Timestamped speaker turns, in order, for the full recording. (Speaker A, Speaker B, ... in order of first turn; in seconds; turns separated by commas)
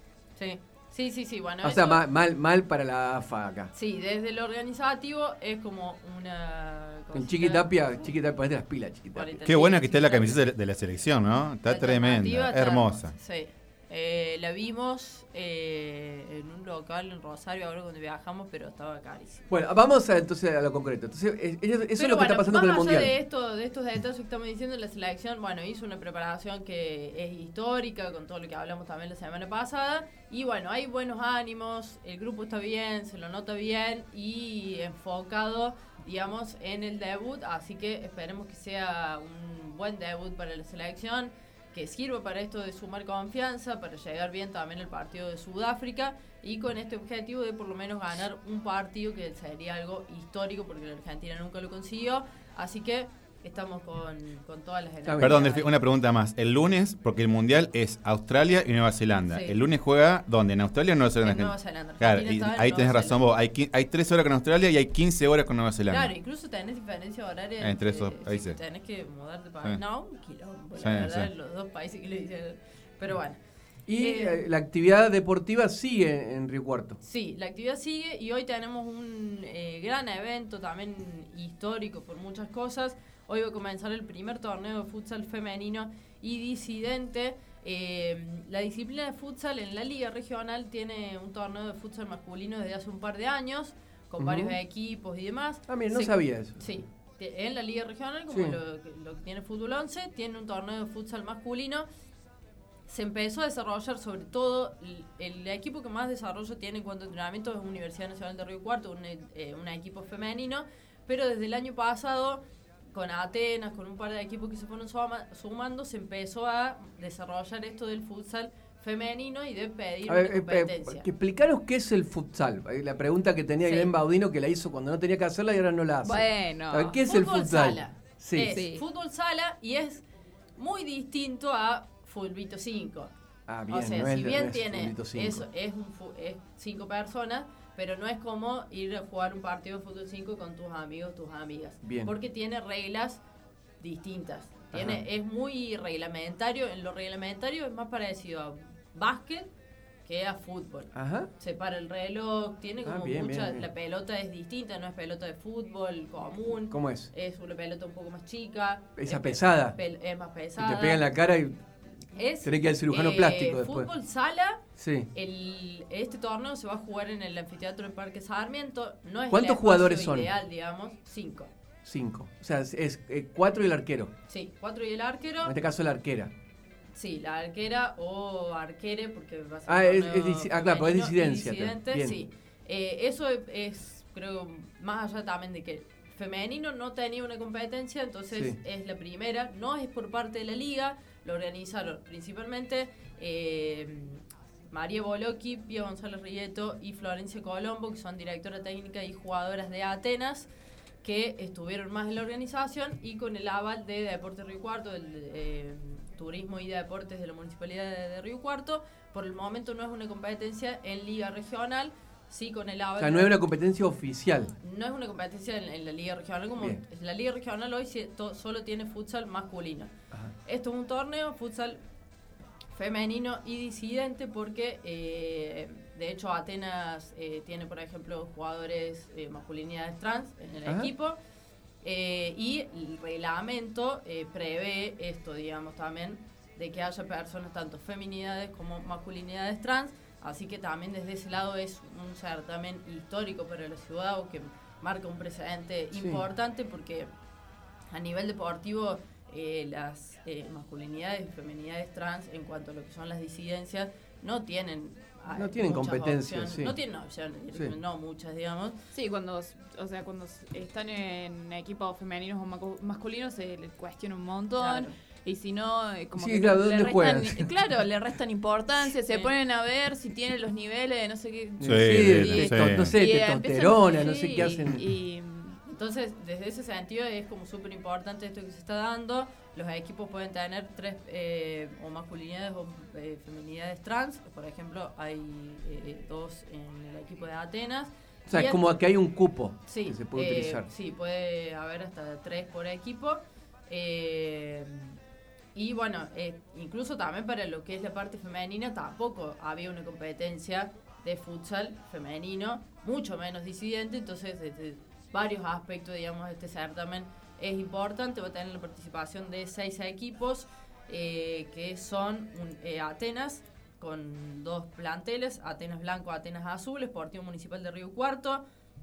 Speaker A: 0.4-2.0, Speaker B: 1.6-3.7, Speaker A: 3.7-7.7, Speaker B: 7.1-9.4, Speaker A: 9.2-10.4, Speaker C: 9.4-13.2, Speaker A: 11.7-19.5, Speaker B: 19.5-23.1, Speaker A: 22.0-55.7, Speaker B: 55.0-55.4, Speaker C: 55.2-66.1, Speaker A: 59.3-59.6, Speaker A: 61.2-63.2, Speaker A: 65.9-73.4, Speaker C: 67.6-68.6, Speaker C: 70.8-71.3, Speaker B: 73.9-77.0, Speaker A: 74.0-74.4, Speaker A: 77.0-101.9, Speaker B: 94.2-94.5, Speaker B: 95.7-96.6, Speaker B: 98.3-98.6, Speaker A: 102.9-121.1, Speaker B: 120.1-128.6, Speaker A: 123.6-123.9, Speaker D: 126.0-127.0, Speaker A: 127.0-130.0, Speaker D: 128.4-128.8, Speaker A: 130.6-133.1, Speaker B: 133.5-135.4, Speaker A: 133.7-143.2, Speaker B: 141.8-142.1, Speaker A: 143.8-149.5, Speaker B: 144.8-145.0, Speaker A: 150.1-161.1, Speaker B: 150.9-151.3, Speaker B: 152.8-153.7, Speaker B: 156.7-157.1, Speaker B: 159.0-159.8, Speaker B: 160.6-161.7, Speaker A: 162.1-164.6, Speaker B: 162.4-163.9, Speaker B: 164.8-165.1, Speaker A: 165.1-171.5, Speaker B: 169.3-170.3, Speaker B: 171.8-174.1, Speaker A: 174.3-175.5, Speaker B: 175.4-176.3, Speaker A: 176.9-200.5, Speaker B: 179.7-182.2, Speaker B: 188.3-188.6, Speaker A: 201.0-213.4, Speaker B: 213.0-214.5, Speaker A: 214.6-219.9, Speaker A: 220.4-221.8, Speaker A: 222.7-231.2, Speaker B: 230.7-230.9, Speaker A: 231.8-247.1, Speaker B: 246.0-246.2, Speaker A: 247.9-258.8, Speaker B: 255.3-256.8, Speaker D: 258.9-275.6, Speaker A: 264.6-264.9, Speaker B: 266.2-267.5, Speaker A: 269.1-269.3, Speaker B: 271.6-274.8, Speaker C: 271.6-273.0, Speaker A: 275.7-288.8, Speaker B: 288.3-290.7, Speaker A: 289.7-295.0, Speaker A: 295.5-318.4